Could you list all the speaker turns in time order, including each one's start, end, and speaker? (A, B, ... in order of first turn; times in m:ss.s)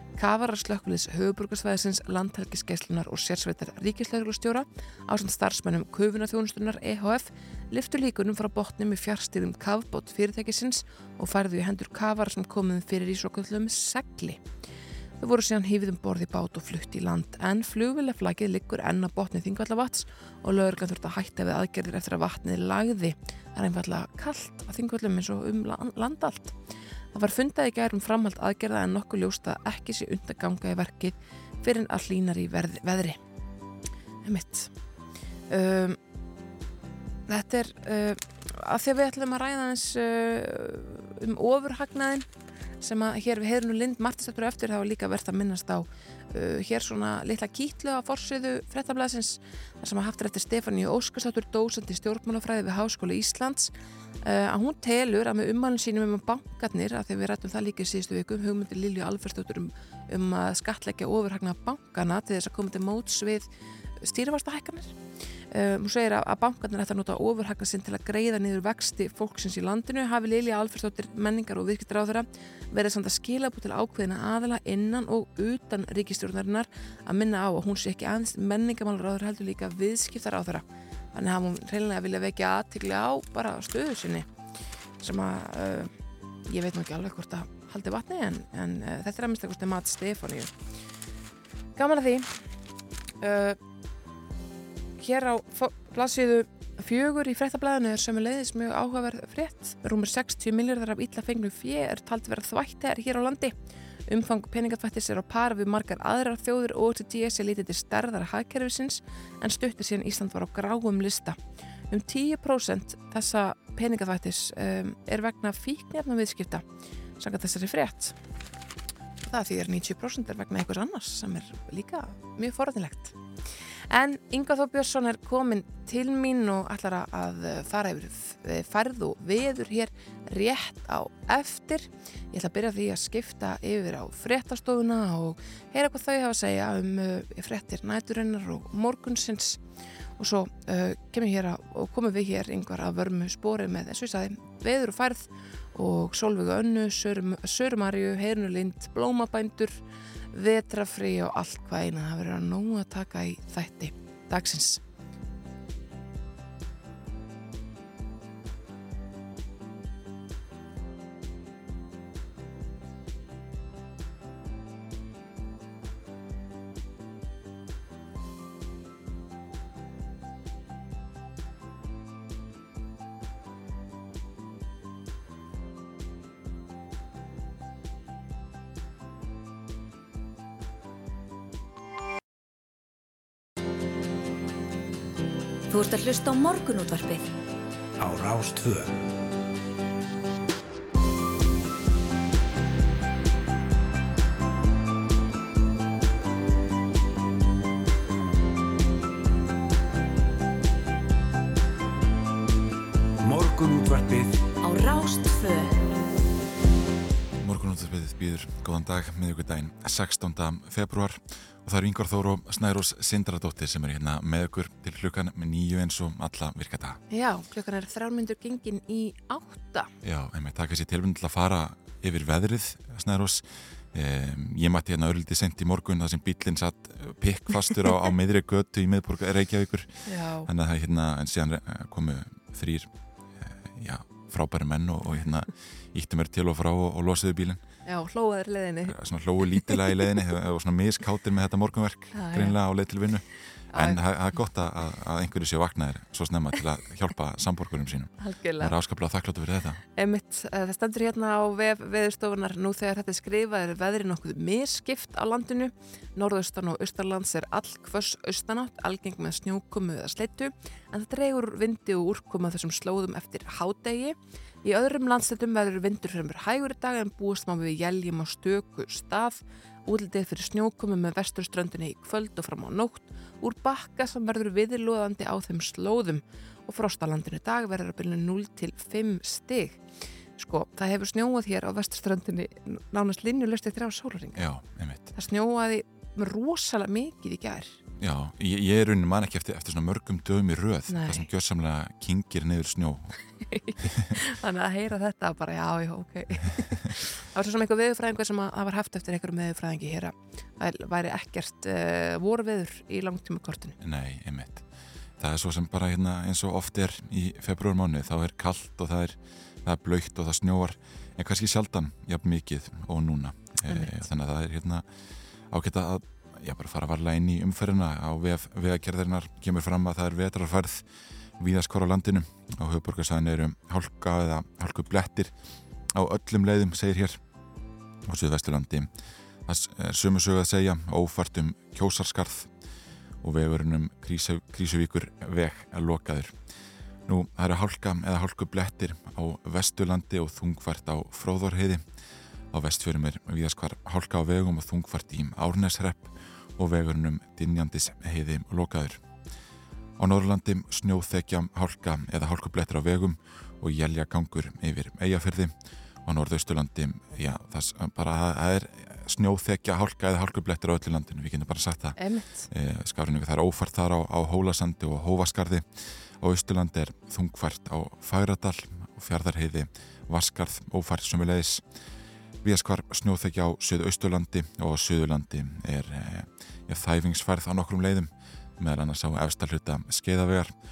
0:00.2-0:14.4 A
0:15.2-0:26.6 A
0:27.1-0:33.2 A
0:34.2-0:34.7 A
0:35.5-0:36.0 A
0:37.3-0:42.2 A
0:42.8-0:53.7 A
0:54.2-1:03.5 A
1:04.0-1:05.0 A
1:05.5-1:24.3 A
1:25.0-1:25.9 A
1:26.5-1:30.5 A
1:31.8-1:32.4 A
1:33.2-1:33.6 A
1:35.0-1:43.5 A
1:44.1-1:51.4 A
1:51.9-1:56.6 A
1:57.2-1:58.2 A
1:59.2-2:03.2 A
2:03.9-2:19.6 A
2:20.2-2:29.8 A
2:30.3-2:34.8 A
3:05.7-3:07.3 B
3:08.0-3:08.9 C
3:23.2-3:24.4 C
3:24.6-3:25.8 B
3:27.4-3:37.0 D
3:37.1-3:39.9 A
3:40.0-3:57.6 D
3:50.0-3:50.5 A
3:57.8-3:59.0 A
3:58.8-4:09.8 D
4:02.1-4:02.6 A
4:03.7-4:04.0 A
4:08.2-4:08.8 A
4:09.9-4:39.8 A
4:40.4-4:44.4 A
4:44.4-4:45.1 D
4:45.1-4:47.8 A
4:48.0-4:53.2 D
4:50.9-4:51.2 A
4:53.4-5:03.8 A
4:53.8-4:54.1 D
5:03.8-5:04.6 D
5:05.2-5:14.9 D
5:13.7-5:14.0 A
5:15.5-5:25.3 D
5:25.9-5:27.2 D
5:28.0-5:28.9 D
5:29.5-5:32.5 D
5:33.2-5:36.4 D
5:37.1-5:41.8 D
5:42.5-5:49.0 D
5:50.0-5:55.5 D
5:56.0-6:11.6 D
6:02.0-6:02.5 A
6:12.4-6:20.5 D